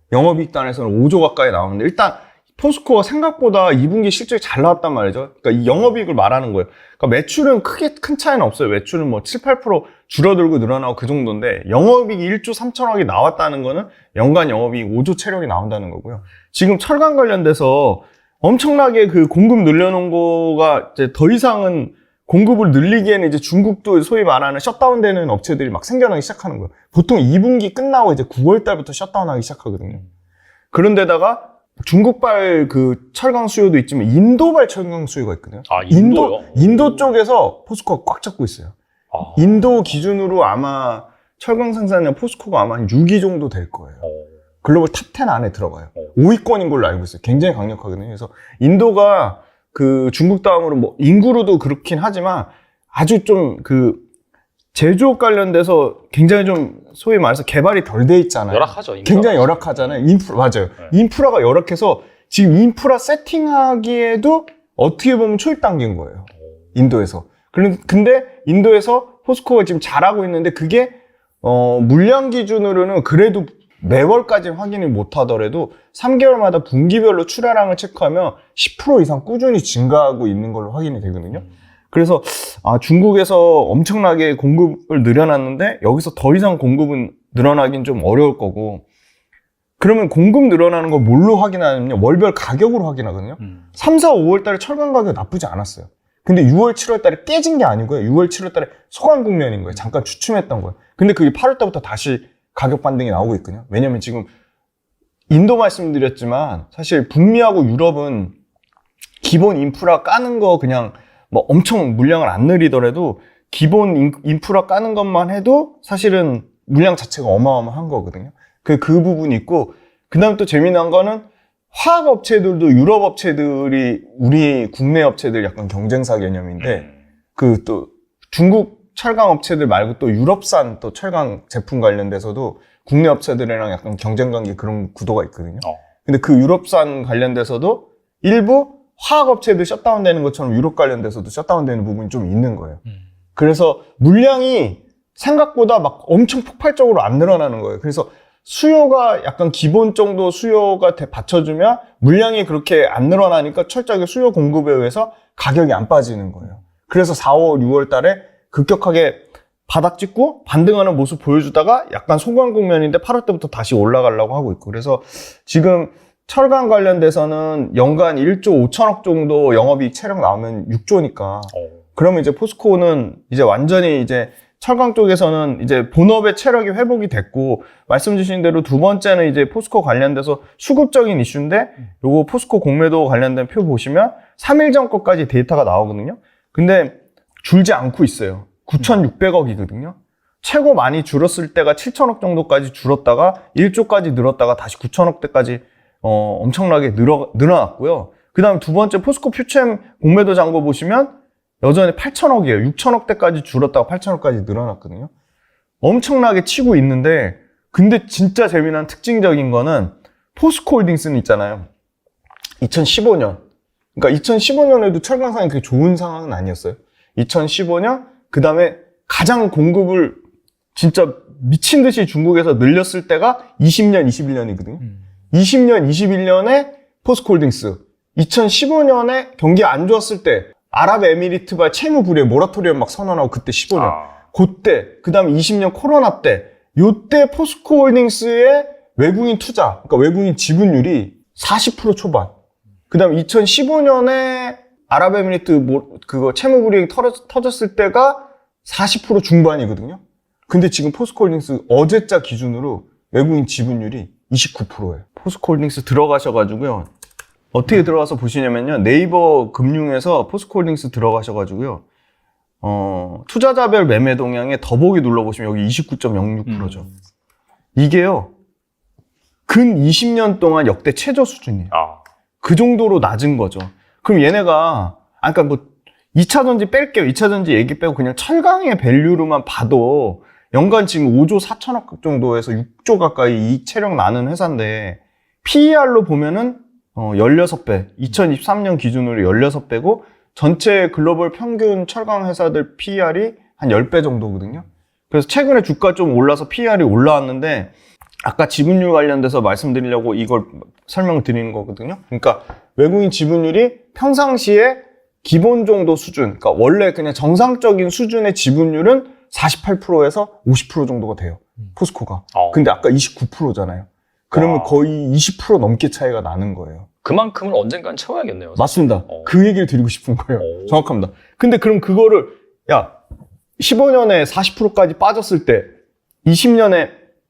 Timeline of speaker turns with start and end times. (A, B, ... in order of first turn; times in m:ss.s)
0:00.1-0:30.0 A
0:30.7-0:38.7 A
0:35.7-0:37.1 B
0:39.1-0:39.6 B
0:39.3-0:44.0 A
0:44.6-0:54.0 A
0:54.7-1:28.8 A
0:58.5-1:00.0 B
1:29.8-1:44.3 A
1:45.3-1:48.4 A
1:49.2-2:22.8 A
2:06.6-2:06.9 B
2:23.4-3:25.1 A
3:25.8-3:31.7 A
3:32.6-3:33.4 A
3:34.0-3:40.2 A
3:40.8-4:02.3 A
3:53.8-3:54.2 B
4:02.9-4:16.9 A
4:17.5-4:21.8 A
4:22.6-4:26.8 A
4:26.5-4:26.9 B
4:27.8-4:28.3 A
4:29.5-4:31.7 A
4:31.7-4:32.0 B
4:32.4-4:57.7 A
4:58.2-5:16.9 A
5:12.3-5:12.7 B
5:14.3-5:14.8 B
5:17.0-5:19.3 B
5:18.6-5:23.0 A
5:20.4-5:20.8 B
5:23.6-5:25.7 A
5:26.2-5:27.0 A